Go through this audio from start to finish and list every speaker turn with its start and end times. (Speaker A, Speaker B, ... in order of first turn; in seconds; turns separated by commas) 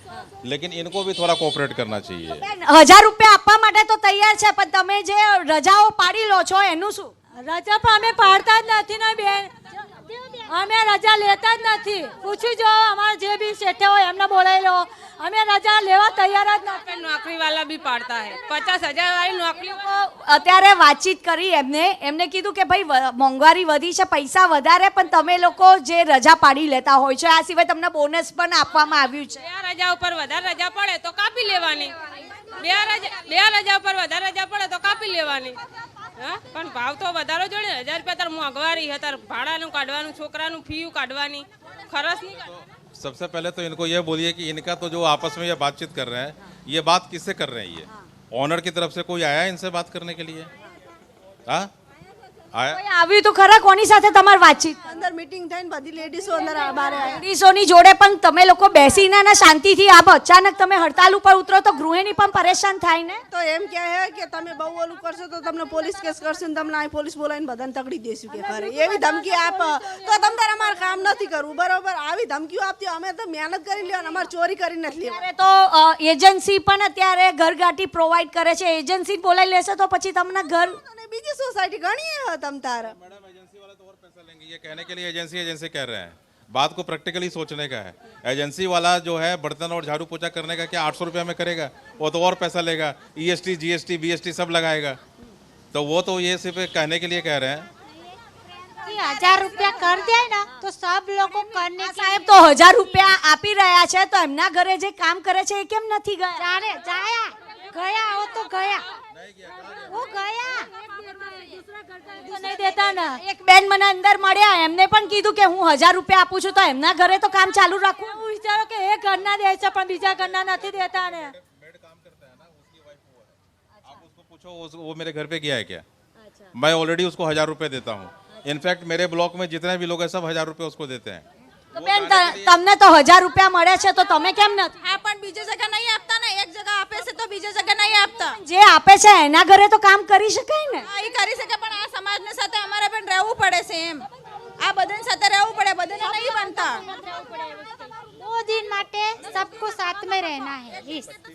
Speaker A: 0.4-2.4, Speaker B: 2.4-7.1, Speaker C: 7.4-9.5, Speaker C: 10.5-16.8, Speaker D: 16.7-19.8, Speaker B: 19.7-29.4, Speaker D: 29.4-31.9, Speaker D: 32.5-35.6, Speaker D: 36.2-42.4, Speaker A: 42.4-50.5, Speaker A: 52.5-52.8, Speaker B: 52.7-54.8, Speaker E: 54.9-57.2, Speaker B: 57.0-63.2, Speaker E: 63.3-75.2, Speaker C: 68.4-70.1, Speaker B: 75.1-80.8, Speaker E: 80.9-83.0, Speaker A: 82.8-95.0, Speaker A: 95.7-97.7, Speaker F: 98.8-102.2, Speaker B: 101.8-106.5, Speaker F: 106.4-108.8, Speaker A: 109.1-110.1, Speaker F: 109.8-110.7, Speaker C: 111.0-113.2, Speaker B: 113.3-118.2, Speaker C: 118.0-121.4, Speaker A: 120.2-125.8, Speaker A: 126.5-132.6, Speaker B: 131.7-134.8, Speaker G: 134.8-138.4, Speaker B: 138.4-140.9, Speaker G: 140.9-144.1, Speaker G: 144.6-146.8, Speaker F: 148.2-151.1